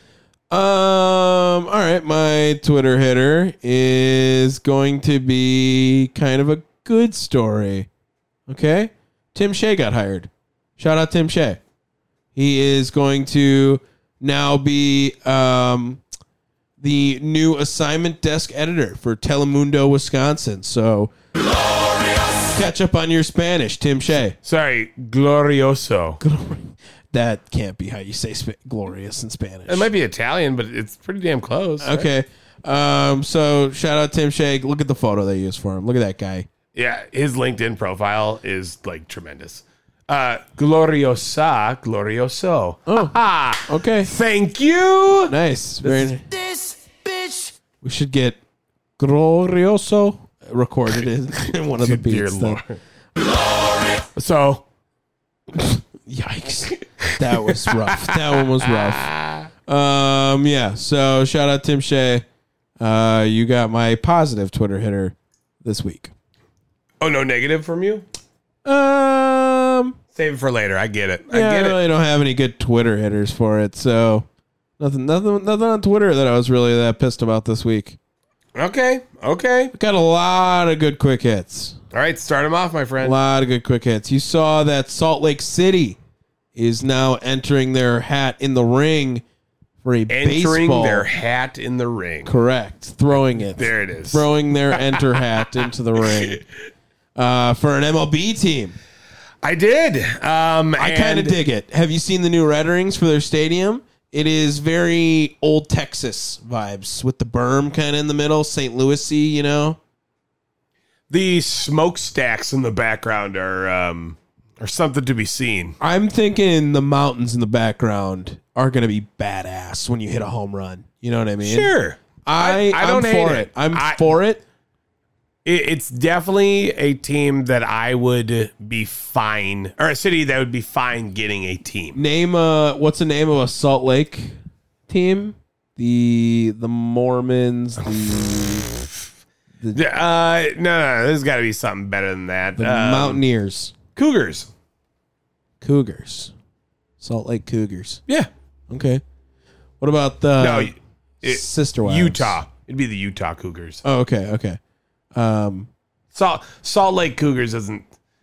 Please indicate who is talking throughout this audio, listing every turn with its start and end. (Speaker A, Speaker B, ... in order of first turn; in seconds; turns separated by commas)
Speaker A: 0.5-7.9, Speaker A: 8.5-11.6, Speaker A: 12.3-16.0, Speaker A: 16.8-21.1, Speaker A: 22.5-24.4, Speaker B: 24.4-26.2, Speaker A: 26.2-29.9, Speaker B: 29.7-32.1, Speaker A: 31.8-36.5, Speaker B: 36.8-46.1, Speaker A: 42.9-44.1, Speaker A: 45.3-46.2, Speaker A: 47.8-48.4, Speaker A: 49.0-52.6, Speaker B: 51.8-52.8, Speaker B: 54.1-54.6, Speaker A: 55.5-59.1, Speaker B: 57.1-59.5, Speaker A: 59.7-62.2, Speaker A: 62.8-66.1, Speaker B: 67.0-68.1, Speaker A: 68.7-70.0, Speaker B: 70.2-71.8, Speaker A: 71.3-74.3, Speaker A: 74.8-78.0, Speaker B: 78.5-79.7, Speaker A: 79.7-81.8, Speaker B: 81.9-83.2, Speaker A: 83.0-86.0, Speaker A: 86.5-89.2, Speaker A: 89.8-91.1, Speaker B: 90.1-92.3, Speaker A: 92.3-96.4, Speaker B: 93.5-95.4, Speaker B: 96.1-96.4, Speaker A: 97.2-98.8, Speaker B: 99.4-101.4, Speaker A: 100.8-109.8, Speaker B: 111.1-115.8, Speaker A: 115.8-121.7, Speaker B: 121.4-124.2, Speaker A: 122.2-124.4, Speaker B: 125.5-132.0, Speaker A: 131.9-134.3, Speaker A: 134.9-138.7, Speaker B: 139.7-143.2, Speaker A: 142.6-143.8, Speaker B: 143.9-144.5, Speaker A: 145.6-146.3, Speaker A: 147.0-148.0, Speaker A: 148.7-149.0, Speaker A: 149.8-152.4, Speaker B: 150.4-153.8, Speaker A: 153.8-154.6, Speaker A: 155.1-155.7, Speaker B: 156.2-157.8